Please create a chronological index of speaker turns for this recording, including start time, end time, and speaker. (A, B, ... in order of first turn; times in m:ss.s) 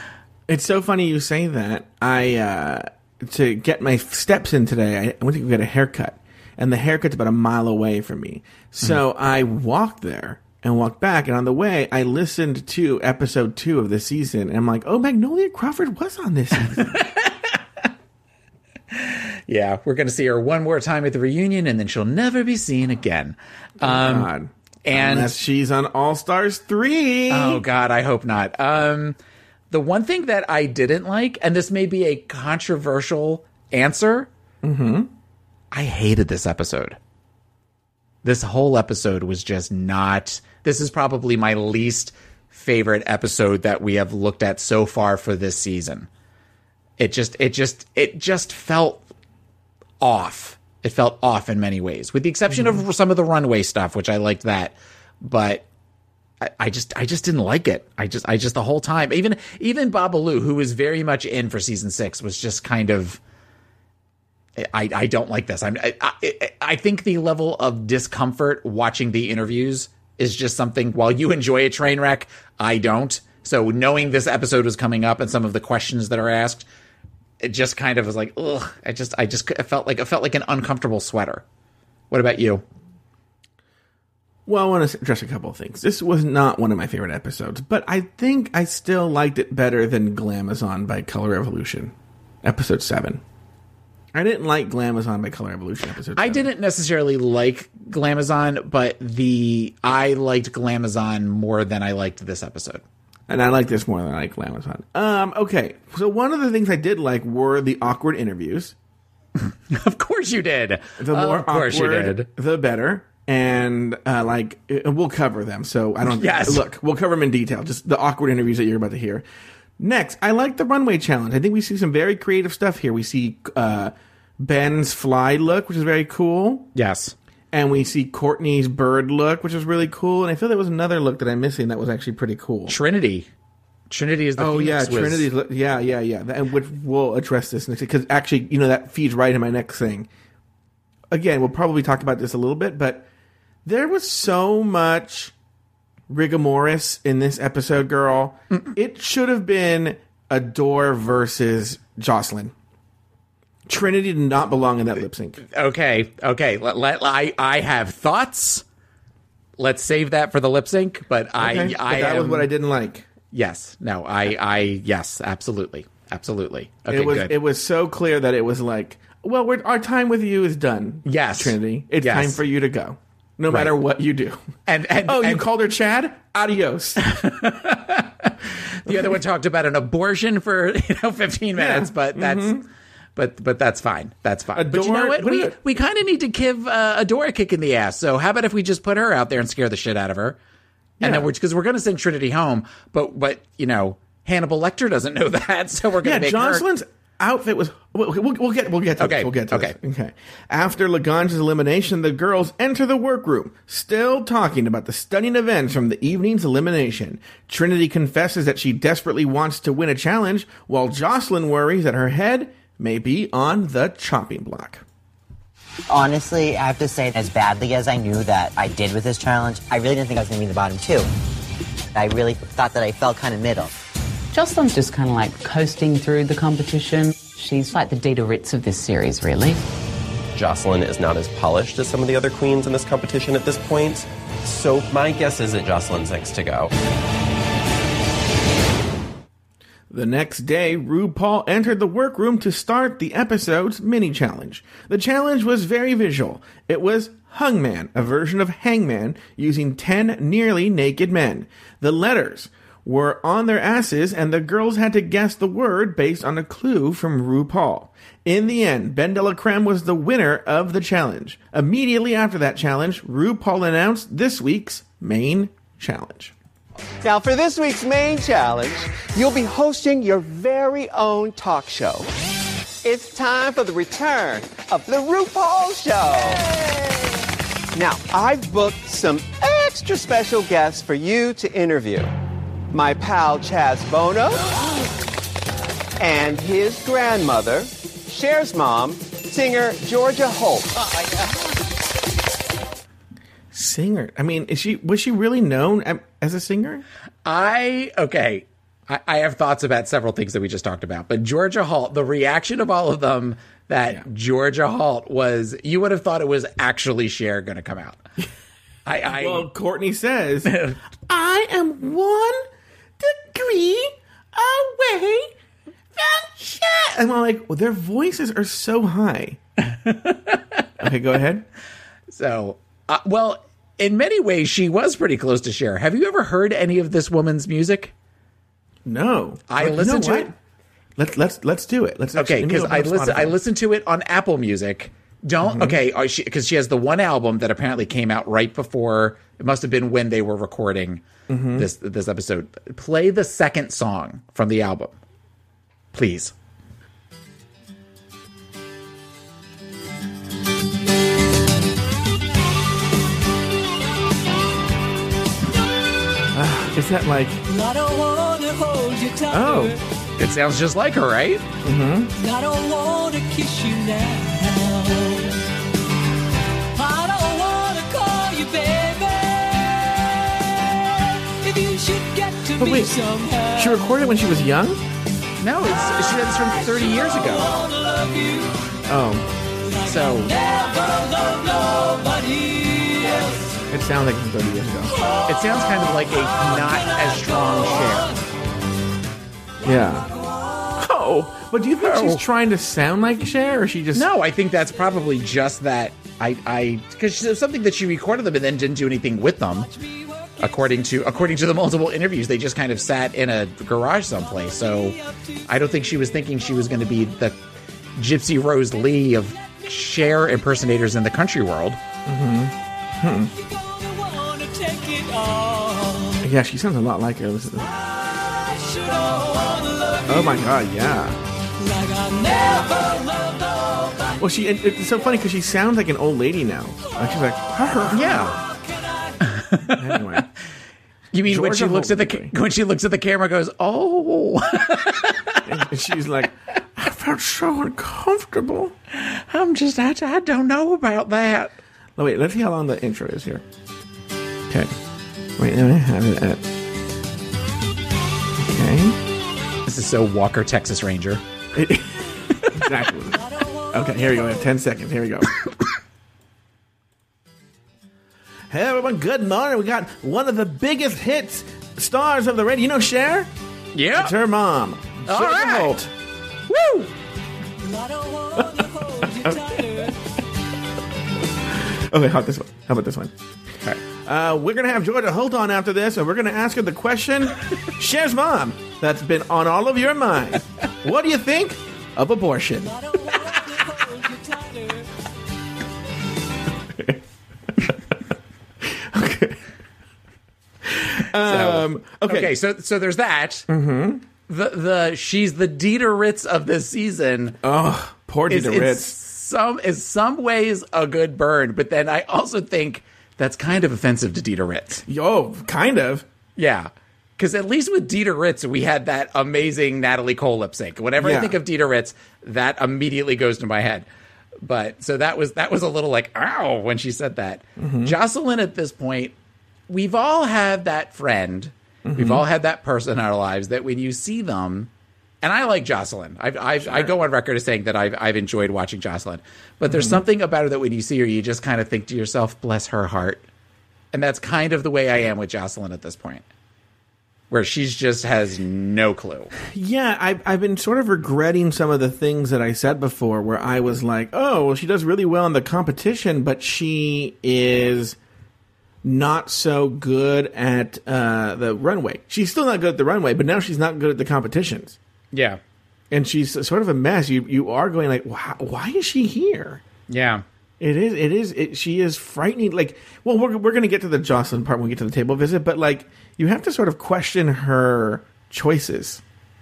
0:00.5-0:17.0 A
0:16.6-0:17.9 B
0:18.9-0:24.3 B
0:23.8-0:27.6 A
0:24.8-0:25.3 B
0:27.3-0:29.2 B
0:29.7-0:34.3 B
0:34.6-0:35.1 A
0:35.7-0:37.0 B
0:38.2-0:46.1 B
0:47.0-0:49.0 B
0:50.0-0:55.6 B
0:52.5-0:52.8 A
0:56.4-1:03.2 B
1:04.6-1:16.6 B
1:17.4-1:21.4 B
1:22.1-1:22.6 B
1:24.5-1:31.9 A
1:32.4-1:33.2 A
1:34.1-1:36.5 A
1:36.2-1:42.8 B
1:43.3-1:48.7 A
1:49.4-1:52.3 B
1:51.0-1:59.2 A
1:56.0-1:56.6 B
1:59.8-2:06.7 A
2:06.7-2:07.1 B
2:07.5-2:12.8 A
2:12.7-2:13.3 B
2:13.9-2:15.3 B
2:14.4-2:20.1 A
2:21.1-2:23.1 A
2:23.6-2:25.3 A
2:26.1-2:32.5 A
2:33.7-2:35.4 A
2:35.4-2:38.6 B
2:39.6-2:42.5 B
2:41.4-2:43.0 A
2:43.3-2:47.4 B
2:46.9-2:54.4 A
2:51.0-2:52.4 B
2:53.5-2:53.7 B
2:54.6-2:55.5 B
2:55.0-2:57.0 A
2:57.0-3:02.6 B
3:01.6-3:02.6 A
3:03.2-3:10.4 B
3:04.5-3:05.6 A
3:11.0-3:16.6 B
3:11.0-3:11.3 A
3:16.0-3:34.8 A
3:19.0-3:19.7 B
3:35.9-3:41.1 C
3:41.9-3:43.7 C
3:44.3-3:49.6 D
3:50.3-3:56.7 E
3:59.9-4:26.3 A
4:27.0-4:32.1 F
4:32.8-4:37.0 F
4:37.7-4:42.1 F
4:42.7-4:44.6 F
4:46.0-4:51.3 F
4:53.5-4:56.8 A
4:57.2-5:08.0 B
5:08.8-5:09.5 B
5:09.1-5:12.4 A
5:10.4-5:10.8 B
5:13.0-5:15.3 A
5:16.0-5:19.4 A
5:19.6-5:20.9 B
5:20.8-5:21.4 A
5:22.1-5:27.9 B
5:28.8-5:30.3 A
5:29.5-5:30.3 B
5:31.0-5:33.3 A
5:32.2-5:45.0 B
5:35.4-5:35.8 A
5:41.3-5:41.7 A
5:45.9-5:46.3 B
5:56.3-5:57.4 A
5:57.4-5:59.8 G
5:59.3-5:59.7 A
6:00.2-6:01.5 B
6:01.6-6:02.1 A
6:02.1-6:05.4 G
6:06.7-6:13.9 G
6:12.6-6:13.0 A
6:13.5-6:14.8 A
6:15.4-6:17.6 B
6:15.9-6:18.6 G
6:18.9-6:19.3 A
6:19.6-6:23.6 G
6:19.8-6:20.3 B
6:23.7-6:25.0 A
6:25.3-6:28.2 B
6:26.6-6:28.2 G
6:29.6-6:30.1 A
6:30.8-6:34.1 A
6:31.8-6:32.2 B
6:33.9-6:39.7 B
6:40.2-6:40.9 G
6:40.4-6:45.0 B
6:44.7-6:45.3 G
6:45.5-6:47.4 B
6:48.0-6:51.8 B
6:52.0-6:53.3 A
6:53.4-6:56.2 G
6:56.2-6:57.7 A
6:57.7-7:00.5 G
7:00.1-7:01.2 A
7:01.6-7:04.3 G
7:04.2-7:08.4 A
7:07.9-7:08.4 B
7:08.1-7:09.2 G
7:09.3-7:10.2 B
7:09.8-7:10.3 A
7:11.1-7:15.6 B
7:11.2-7:12.3 A
7:15.4-7:18.7 A
7:18.9-7:21.5 B
7:22.0-7:23.4 A
7:25.4-7:26.4 A
7:28.4-7:29.0 A
7:29.6-7:31.2 B
7:31.5-7:33.2 A
7:33.2-7:34.5 G
7:33.7-7:35.3 A
7:38.5-7:43.3 A
7:43.7-7:44.1 B
7:43.9-7:45.9 A
7:45.1-7:45.8 B
7:46.5-7:46.9 B
7:47.6-7:50.0 G
7:51.7-7:53.1 A
7:54.0-8:02.7 A
8:02.6-8:04.9 G
8:06.7-8:07.0 A
8:08.6-8:09.4 A
8:10.6-8:12.3 A
8:11.2-8:13.5 B
8:13.5-8:14.0 A
8:14.3-8:17.4 B
8:17.4-8:19.0 A
8:18.3-8:24.8 B
8:24.8-8:26.0 A
8:26.4-8:33.9 B
8:31.0-8:31.4 A
8:34.4-8:39.1 B
8:37.6-8:38.0 A
8:39.7-8:44.7 B
8:41.8-8:42.2 A
8:45.2-8:53.2 B
8:49.7-8:50.0 A
8:53.9-8:56.2 B
8:57.3-8:59.3 B
8:59.5-9:08.0 A
9:08.8-9:14.8 A
9:15.1-9:15.4 B
9:15.9-9:19.6 A
9:19.9-9:20.2 B
9:20.6-9:29.0 A